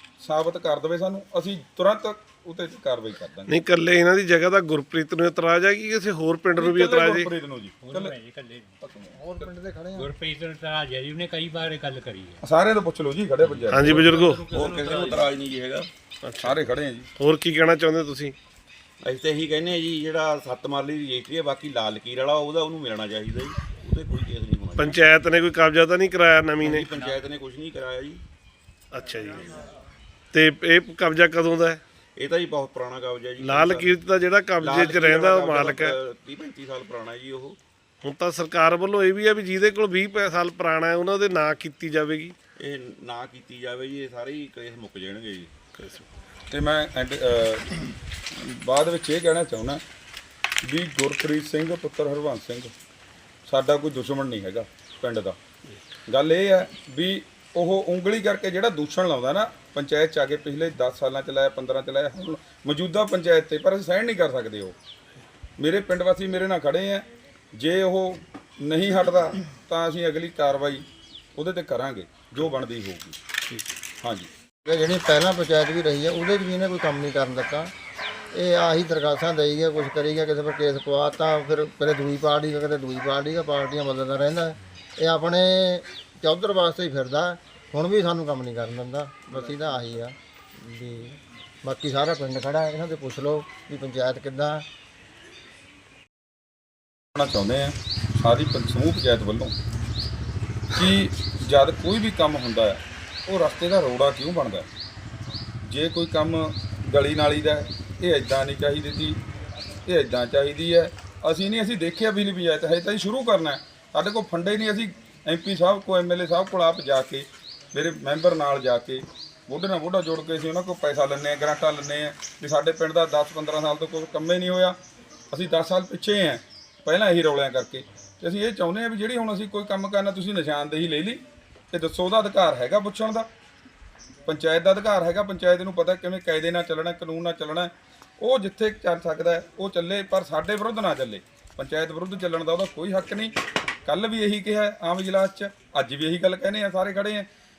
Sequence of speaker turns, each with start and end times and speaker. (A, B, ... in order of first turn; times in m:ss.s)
0:00.2-0:03.5 A
0:03.5-0:07.3 B
0:06.6-0:08.2 A
0:07.8-0:08.8 C
0:08.8-0:09.5 A
0:09.2-0:10.1 D
0:09.9-0:12.4 C
0:12.4-0:14.2 A
0:13.5-0:15.9 E
0:13.7-0:14.4 B
0:14.0-0:15.3 C
0:16.2-0:16.5 B
0:16.4-0:17.1 A
0:17.2-0:18.4 B
0:19.0-0:25.0 E
0:24.8-0:26.9 B
0:26.6-0:28.2 E
0:28.9-0:29.4 B
0:30.3-0:31.8 B
0:32.2-0:34.0 E
0:33.4-0:35.9 B
0:34.6-0:37.6 E
0:38.0-0:42.4 B
0:42.6-0:45.5 E
0:45.8-0:46.1 B
0:46.5-0:49.8 A
0:50.6-0:52.7 A
0:53.5-0:55.4 A
0:56.1-1:04.8 A
1:05.6-1:13.2 A
1:14.0-1:14.3 A
1:14.6-1:17.7 D
1:18.3-1:34.7 D
1:37.2-1:39.5 A
1:40.8-1:44.7 A
1:45.6-1:49.2 A
1:49.8-2:04.8 A
2:05.3-2:13.3 A
2:14.3-2:27.3 A